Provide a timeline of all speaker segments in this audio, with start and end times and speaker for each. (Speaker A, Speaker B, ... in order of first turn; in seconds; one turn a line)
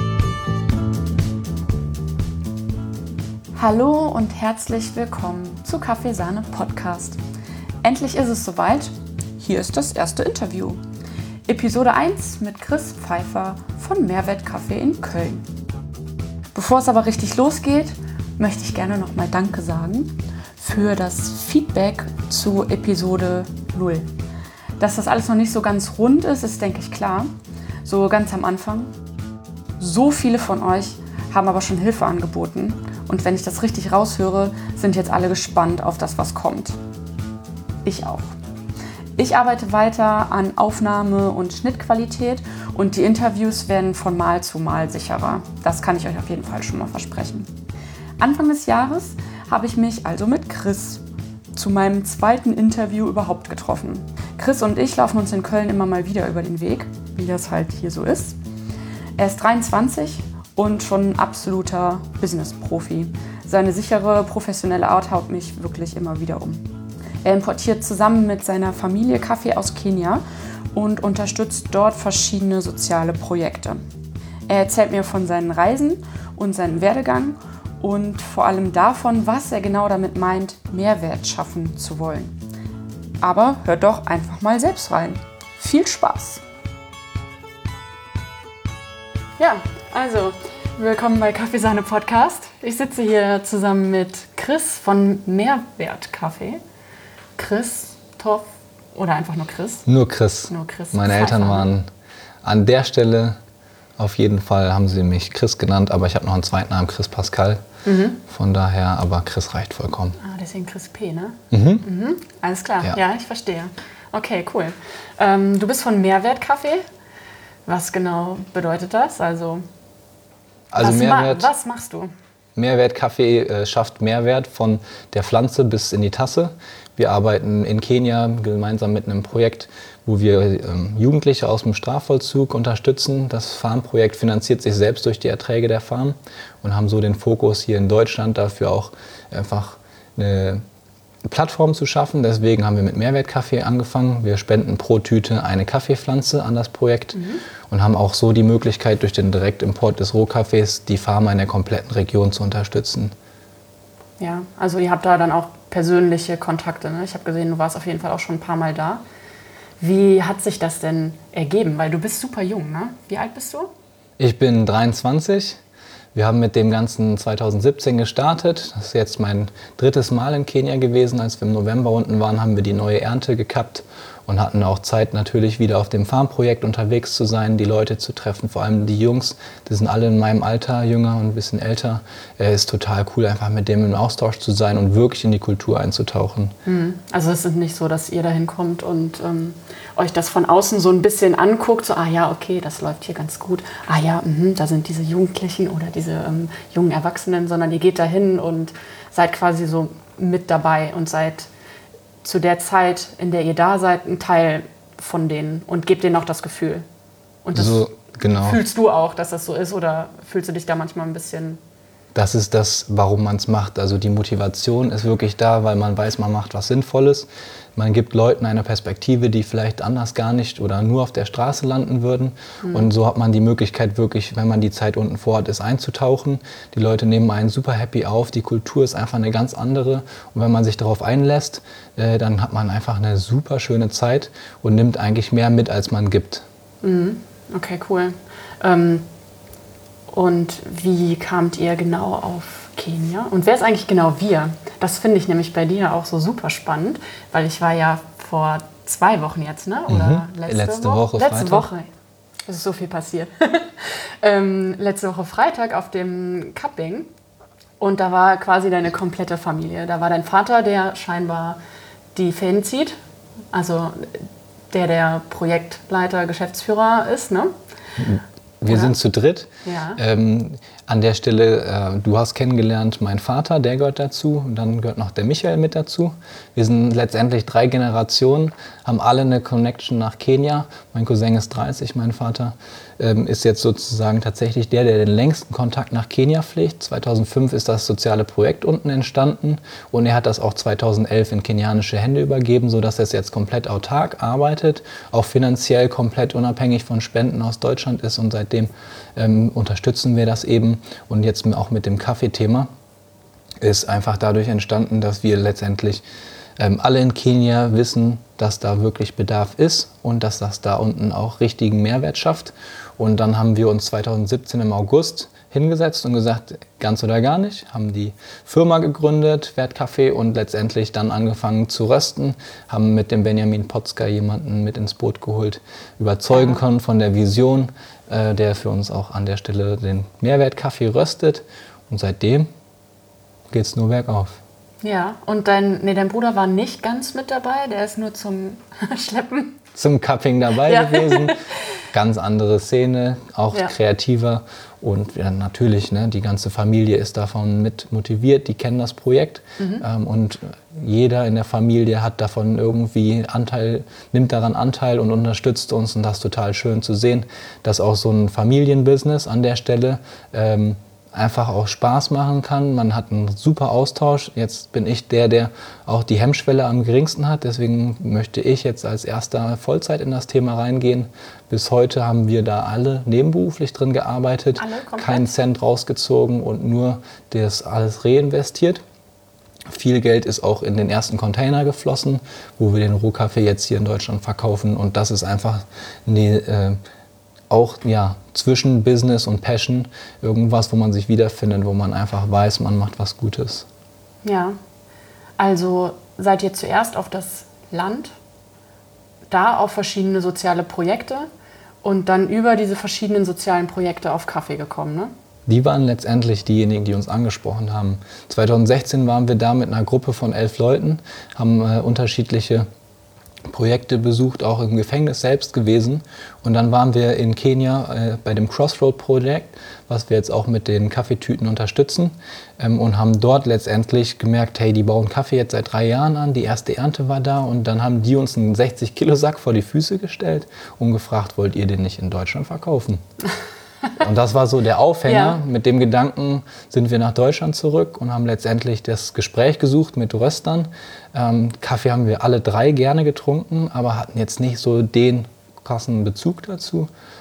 Speaker A: 3.5-7.2
Speaker A: 7.8-10.8
Speaker A: 11.5-15.5
Speaker A: 16.5-24.1
Speaker A: 24.8-27.3
Speaker A: 27.8-28.9
Speaker A: 29.8-36.8
Speaker A: 37.8-38.3
Speaker A: 39.2-47.5
Speaker A: 48.2-51.0
Speaker A: 51.5-58.4
Speaker A: 59.2-66.7
Speaker A: 67.2-73.8
Speaker A: 74.5-82.3
Speaker A: 83.2-86.4
Speaker A: 89.4-96.6
Speaker A: 97.3-99.8
Speaker B: 99.8-101.9
Speaker A: 100.5-101.7
Speaker B: 102.4-103.4
Speaker B: 104.0-107.6
Speaker A: 107.8-108.2
Speaker B: 108.2-110.2
Speaker A: 110.2-116.8
Speaker B: 111.5-111.8
Speaker A: 117.7-119.6
Speaker B: 120.7-121.5
Speaker A: 120.8-122.1
Speaker B: 122.5-140.6
Speaker B: 141.2-153.1
Speaker A: 147.1-147.4
Speaker A: 154.2-159.0
Speaker A: 159.8-163.7
Speaker B: 164.2-165.6
Speaker B: 166.1-186.5
Speaker A: 186.6-201.5
Speaker A: 202.2-206.8
Speaker A: 207.4-207.8
Speaker B: 207.5-208.6
Speaker A: 208.4-211.6
Speaker B: 212.1-236.4
Speaker A: 222.6-222.9
Speaker A: 236.8-239.1
Speaker A: 240.1-251.9
Speaker B: 249.9-251.7
Speaker A: 252.4-257.1
Speaker A: 257.8-261.6
Speaker A: 262.1-262.9
Speaker A: 263.5-267.5
Speaker B: 268.0-302.7
Speaker A: 268.7-268.9
Speaker A: 269.6-270.0
Speaker B: 303.6-306.0
Speaker B: 306.6-332.5
Speaker A: 326.3-326.6
Speaker B: 333.5-334.4
Speaker A: 334.8-339.6
Speaker B: 339.7-341.4
Speaker A: 340.6-341.6
Speaker B: 341.9-378.8
Speaker A: 349.6-349.8
Speaker A: 374.6-375.3
Speaker B: 379.7-386.8
Speaker B: 387.5-393.7
Speaker A: 394.2-394.6
Speaker A: 395.4-398.1
Speaker A: 399.3-401.3
Speaker A: 401.8-405.1
Speaker B: 405.5-412.7
Speaker B: 413.4-433.0
Speaker B: 434.0-446.9
Speaker A: 435.1-435.4